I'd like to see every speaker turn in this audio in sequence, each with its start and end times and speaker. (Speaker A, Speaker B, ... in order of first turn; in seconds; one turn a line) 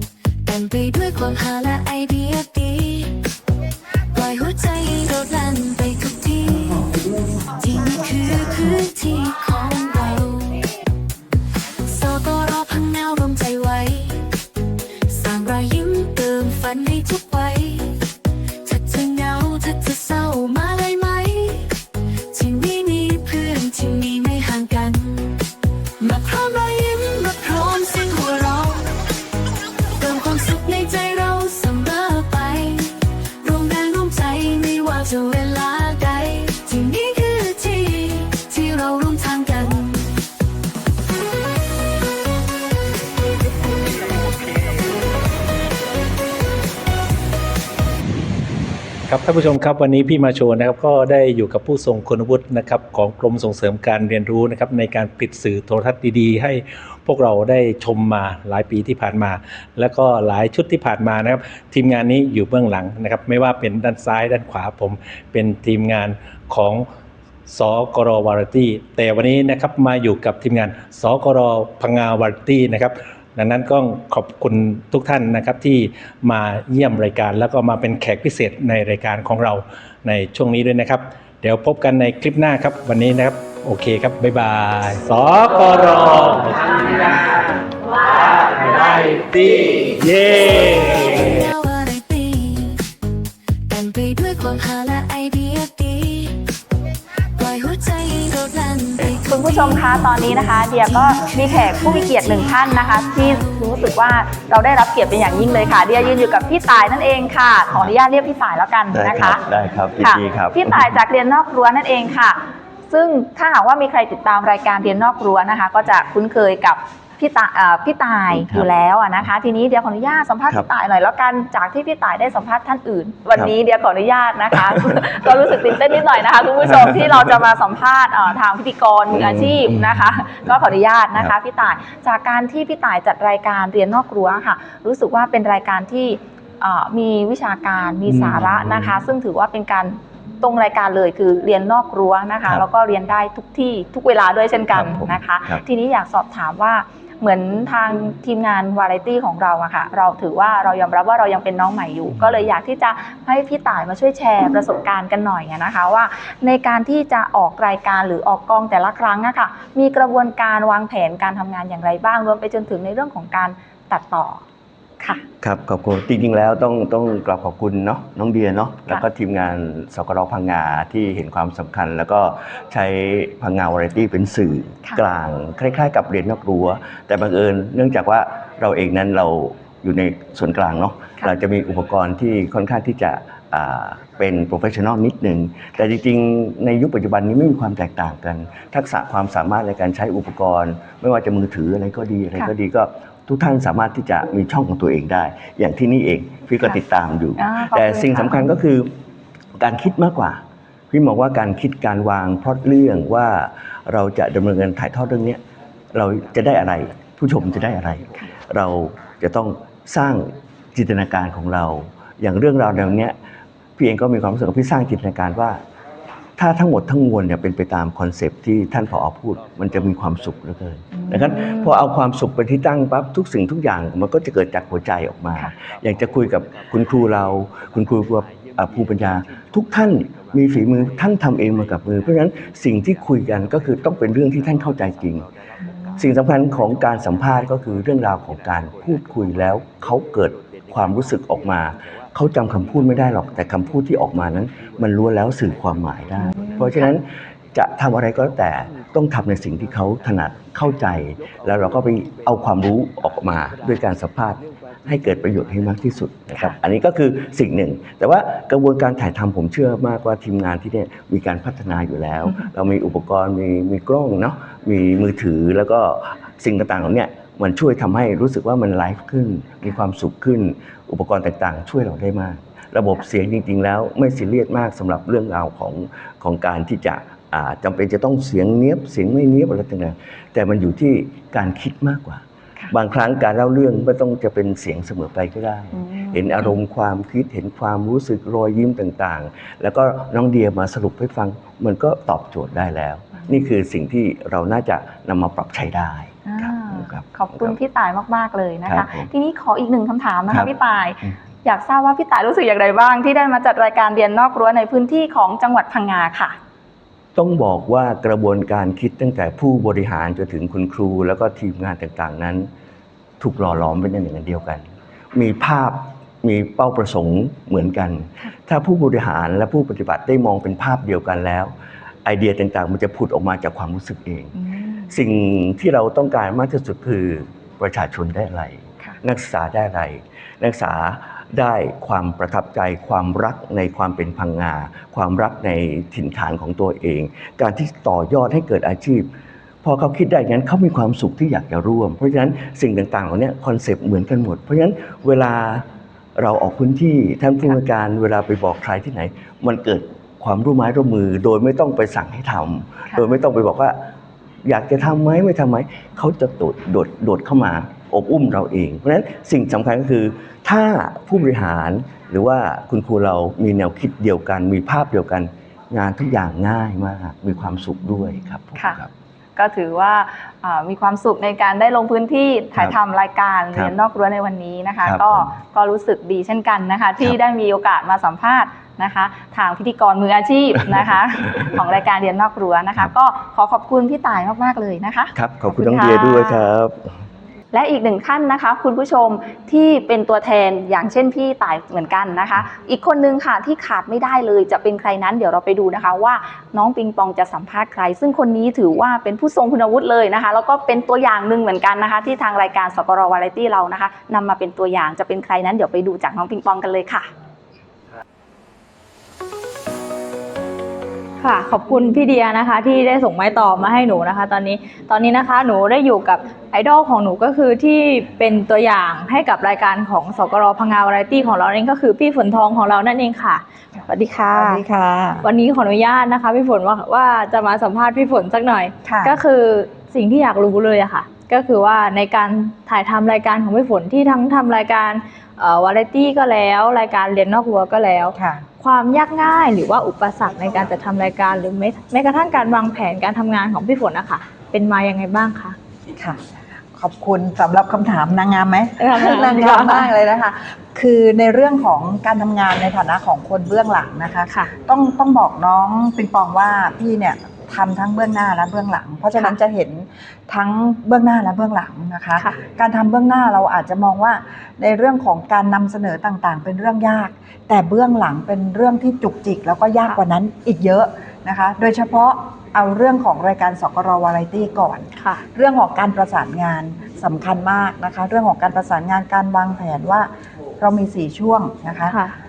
Speaker A: 0.4-3.2
Speaker A: 4.1-6.9
Speaker A: 7.5-10.7
Speaker A: 11.8-14.3
Speaker A: 15.1-18.0
Speaker A: 18.6-21.7
Speaker A: 22.3-25.4
Speaker A: 26.0-28.9
Speaker A: 30.0-40.1
Speaker B: 49.1-66.8
Speaker B: 67.5-87.3
Speaker B: 88.3-91.1
Speaker A: 90.5-92.8
Speaker A: 93.7-96.4
Speaker A: 97.4-103.7
Speaker C: 99.2-109.4
Speaker D: 108.9-111.0
Speaker C: 110.0-112.4
Speaker C: 112.9-164.4
Speaker D: 118.3-118.7
Speaker D: 124.5-127.4
Speaker D: 129.1-131.3
Speaker D: 138.1-139.0
Speaker D: 144.7-145.6
Speaker C: 165.0-165.2
Speaker D: 165.4-198.9
Speaker C: 197.4-198.6
Speaker D: 199.6-205.4
Speaker D: 205.9-213.2
Speaker D: 213.8-215.6
Speaker D: 216.4-235.3
Speaker C: 220.9-221.9
Speaker C: 225.3-225.7
Speaker D: 236.0-297.6
Speaker C: 246.2-246.9
Speaker C: 262.2-262.5
Speaker C: 285.8-286.6
Speaker C: 293.1-293.4
Speaker C: 296.2-306.4
Speaker D: 298.7-299.1
Speaker D: 307.2-312.5
Speaker D: 313.2-321.5
Speaker D: 322.1-324.3
Speaker C: 324.4-324.9
Speaker D: 324.9-339.1
Speaker D: 339.6-345.6
Speaker D: 346.2-353.8
Speaker D: 354.4-368.9
Speaker C: 368.6-368.8
Speaker C: 369.4-386.5
Speaker D: 374.8-375.4
Speaker D: 380.6-381.6
Speaker D: 385.1-386.9
Speaker C: 387.5-407.1
Speaker E: 411.2-424.6
Speaker F: 424.3-425.3
Speaker E: 425.2-445.6
Speaker F: 428.9-429.2
Speaker F: 438.1-438.4
Speaker F: 445.9-446.2
Speaker F: 446.8-482.0
Speaker E: 448.8-449.9
Speaker E: 475.0-475.2
Speaker E: 481.9-482.2